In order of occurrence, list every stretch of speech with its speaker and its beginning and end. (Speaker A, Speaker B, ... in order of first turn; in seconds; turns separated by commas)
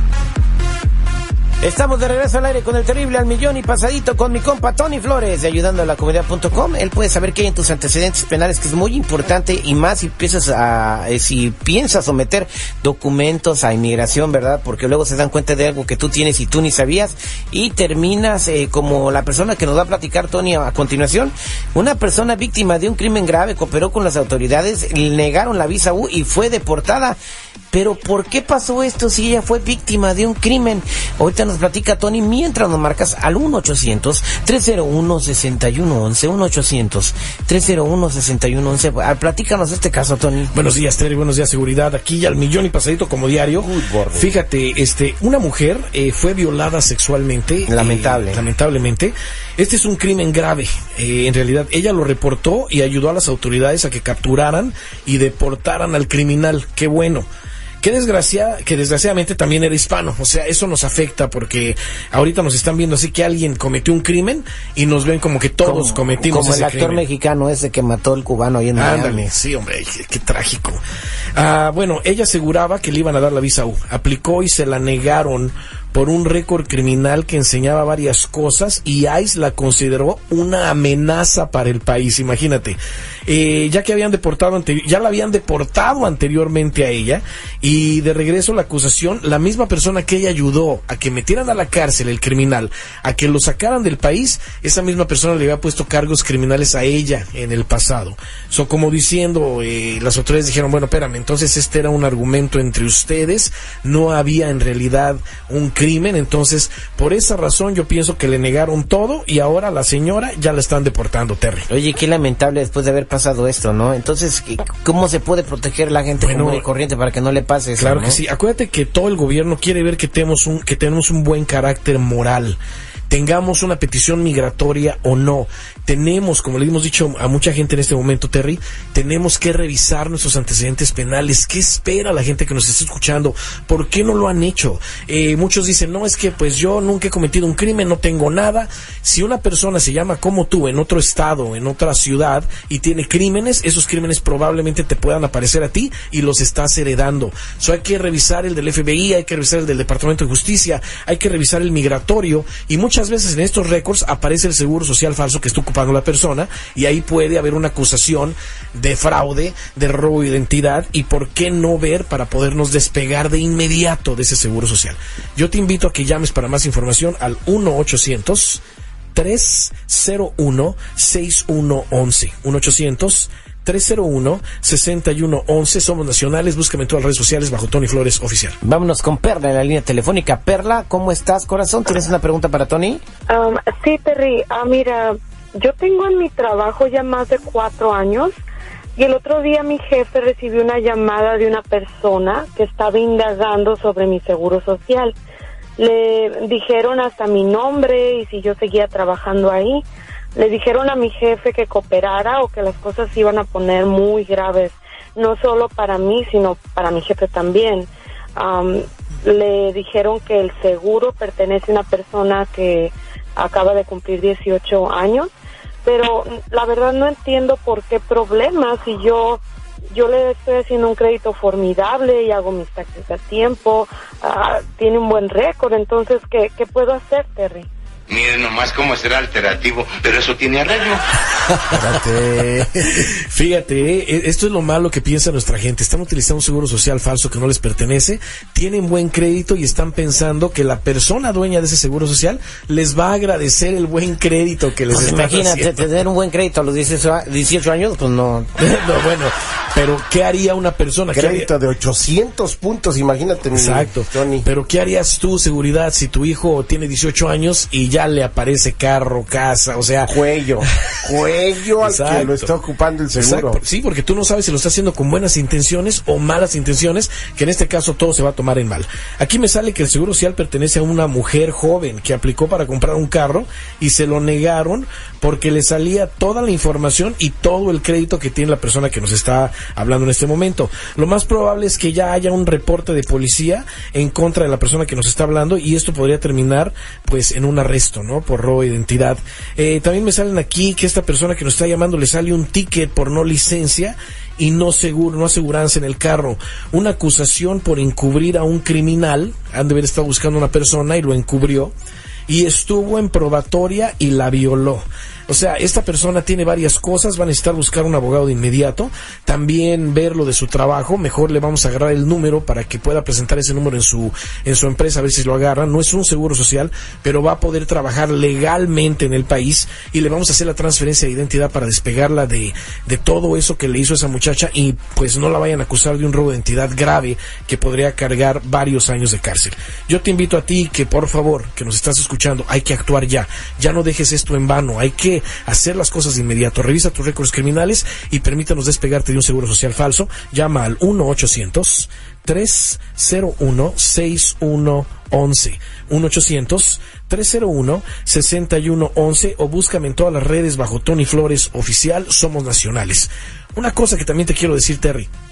Speaker A: 1.6-27.2, Speaker A: 27.7-40.5, Speaker B: 40.5-57.3, Speaker C: 43.6-44.3, Speaker A: 47.7-48.4, Speaker B: 57.8-67.0, Speaker A: 65.6-69.3, Speaker B: 68.7-70.8, Speaker B: 71.3-111.7, Speaker A: 111.7-118.2, Speaker B: 116.2-116.7, Speaker B: 117.8-168.6, Speaker B: 169.1-178.6, Speaker A: 178.6-183.0, Speaker D: 183.3-188.3, Speaker D: 188.9-195.1, Speaker D: 195.8-199.8, Speaker D: 200.3-215.3, Speaker D: 215.8-219.4, Speaker D: 219.9-227.7, Speaker E: 228.1-231.0, Speaker C: 231.7-233.1, Speaker B: 233.1-245.8, Speaker A: 244.9-248.5, Speaker B: 248.6-251.5, Speaker C: 251.1-254.4, Speaker B: 253.5-261.0, Speaker C: 260.1-263.6, Speaker B: 261.8-262.5, Speaker B: 263.1-301.7, Speaker B: 302.3-355.1